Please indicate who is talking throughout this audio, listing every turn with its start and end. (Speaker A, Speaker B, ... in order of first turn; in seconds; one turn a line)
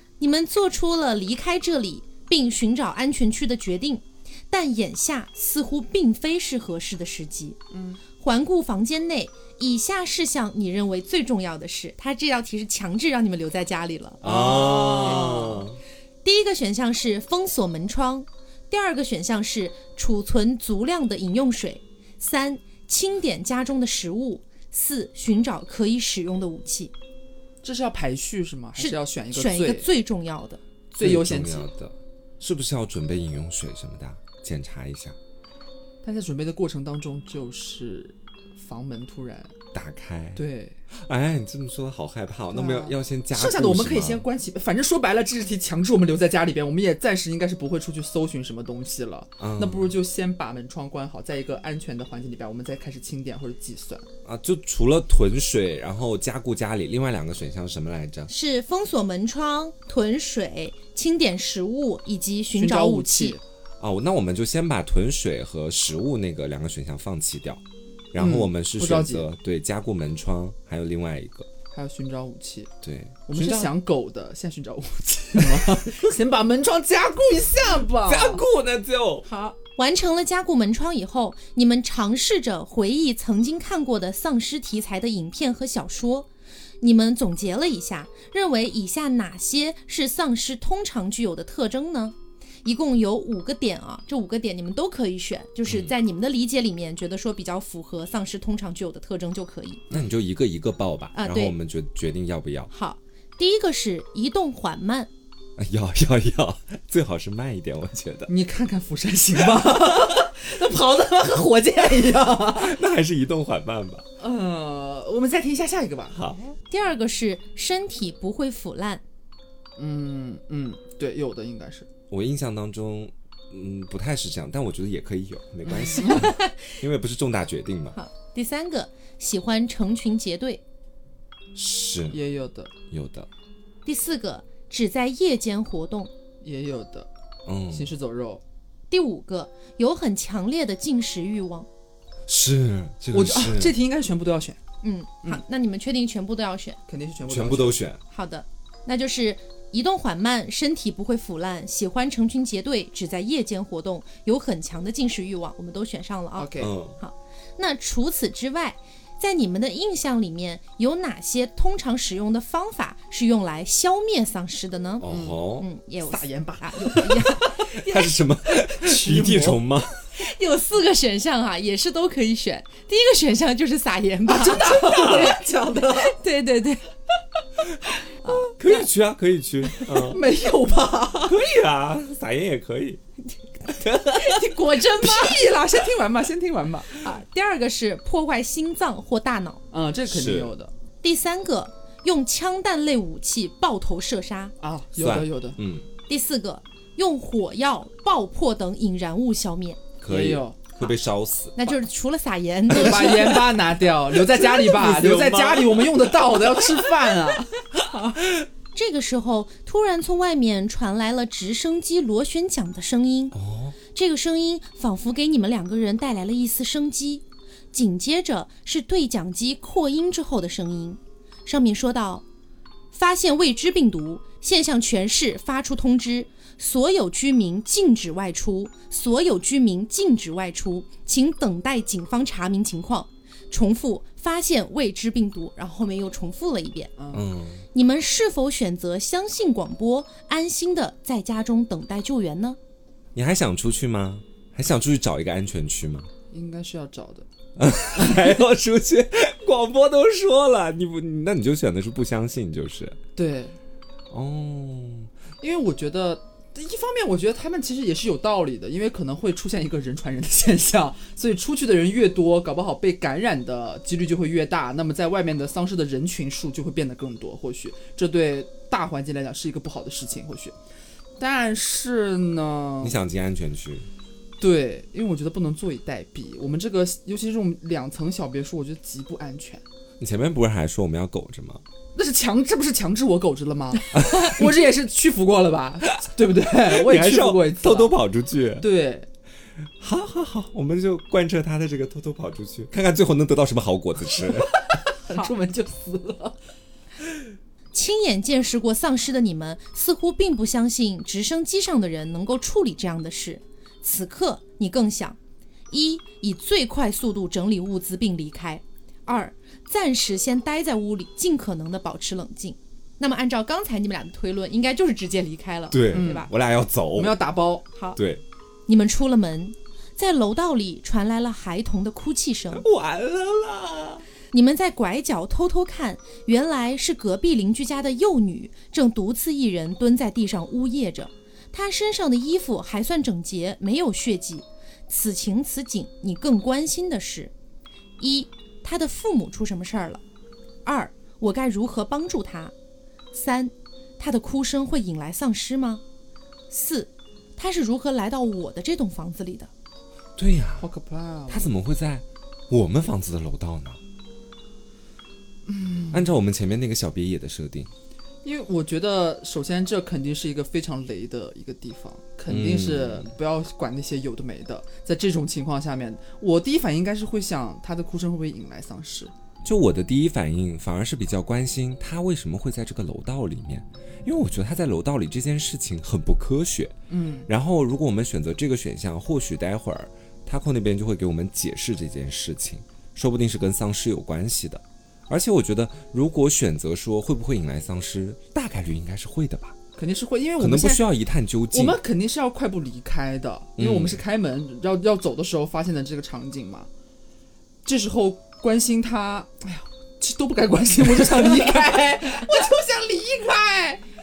Speaker A: 0.2-7.6
Speaker B: 7.7-8.0
Speaker A: 8.2-15.4
Speaker C: 14.2-15.8
Speaker B: 14.2-15.7
Speaker A: 16.2-26.9
Speaker B: 27.6-29.9
Speaker A: 28.8-30.6
Speaker B: 30.9-31.7
Speaker C: 31.0-35.1
Speaker B: 36.0-39.5
Speaker C: 39.7-44.2
Speaker B: 40.4-40.8
Speaker B: 42.5-54.0
Speaker C: 49.4-49.9
Speaker C: 54.2-58.3
Speaker A: 58.3-63.4
Speaker B: 62.5-63.4
Speaker C: 63.8-67.6
Speaker C: 68.1-71.5
Speaker B: 68.2-69.3
Speaker B: 71.7-72.7
Speaker C: 72.8-73.7
Speaker B: 73.3-78.4
Speaker C: 75.4-75.9
Speaker C: 78.0-79.3
Speaker A: 79.2-86.3
Speaker A: 86.8-99.8
Speaker C: 95.7-95.9
Speaker C: 99.9-102.7
Speaker A: 101.1-101.5
Speaker A: 102.7-105.1
Speaker C: 105.6-108.3
Speaker B: 108.3-112.8
Speaker C: 112.5-114.0
Speaker B: 114.2-116.2
Speaker C: 116.1-116.5
Speaker A: 116.7-119.0
Speaker B: 119.8-121.9
Speaker C: 122.1-128.0
Speaker B: 125.8-126.3
Speaker A: 126.0-126.7
Speaker A: 127.9-130.6
Speaker C: 131.5-132.2
Speaker B: 132.1-132.7
Speaker C: 132.9-133.3
Speaker A: 133.8-136.1
Speaker B: 136.4-137.1
Speaker C: 137.4-137.9
Speaker B: 137.7-138.4
Speaker A: 138.9-141.7
Speaker C: 142.3-143.8
Speaker B: 143.1-144.6
Speaker A: 144.8-146.8
Speaker B: 146.9-147.8
Speaker C: 147.3-148.0
Speaker A: 148.1-168.1
Speaker B: 156.3-156.7
Speaker C: 156.6-157.0
Speaker C: 165.0-165.7
Speaker B: 165.1-165.4
Speaker B: 166.0-167.6
Speaker C: 167.7-170.1
Speaker B: 168.5-169.6
Speaker A: 170.2-176.8
Speaker B: 174.3-176.2
Speaker C: 174.8-175.3
Speaker A: 178.2-178.5
Speaker C: 178.6-180.2
Speaker B: 179.8-181.4
Speaker C: 181.2-183.0
Speaker C: 183.7-184.5
Speaker A: 184.0-185.4
Speaker B: 185.0-187.0
Speaker A: 186.9-189.6
Speaker B: 189.7-190.7
Speaker C: 190.1-190.5
Speaker A: 191.0-194.5
Speaker B: 194.6-195.6
Speaker C: 194.9-195.9
Speaker A: 196.1-199.8
Speaker C: 200.0-201.7
Speaker B: 200.1-200.6
Speaker A: 201.5-203.4
Speaker B: 202.7-207.6
Speaker C: 202.8-203.2
Speaker C: 204.1-206.7
Speaker A: 207.9-208.2
Speaker A: 208.7-213.3
Speaker C: 213.3-213.8
Speaker A: 213.9-222.2
Speaker A: 222.9-236.9
Speaker B: 237.0-237.3
Speaker C: 237.1-237.6
Speaker A: 237.7-242.6
Speaker C: 243.1-246.1
Speaker B: 246.3-247.2
Speaker C: 247.6-253.0
Speaker B: 253.2-253.6
Speaker C: 254.1-255.1
Speaker B: 255.4-270.5
Speaker B: 271.2-273.0
Speaker C: 272.8-273.9
Speaker B: 274.4-279.6
Speaker C: 280.0-281.6
Speaker B: 281.9-287.9
Speaker C: 283.9-284.5
Speaker C: 286.6-288.7
Speaker B: 288.6-289.1
Speaker C: 289.8-294.6
Speaker B: 294.2-296.4
Speaker A: 297.7-305.2
Speaker A: 305.7-316.3
Speaker C: 315.7-317.2
Speaker B: 315.9-316.3
Speaker B: 316.9-317.6
Speaker C: 317.9-318.2
Speaker A: 318.7-322.6
Speaker C: 322.5-324.0
Speaker A: 324.3-337.3
Speaker A: 338.0-340.0
Speaker A: 340.6-342.5
Speaker A: 343.1-345.8
Speaker A: 346.5-349.5
Speaker C: 350.1-350.7
Speaker B: 350.6-351.5
Speaker C: 351.3-353.8
Speaker B: 355.4-356.1
Speaker C: 355.9-357.7
Speaker B: 358.2-369.1
Speaker C: 362.3-363.1
Speaker C: 369.4-376.8
Speaker B: 376.9-377.3
Speaker C: 377.3-389.6
Speaker B: 389.8-390.9
Speaker C: 390.4-391.8
Speaker B: 391.5-396.7
Speaker C: 393.6-394.0
Speaker B: 397.6-403.8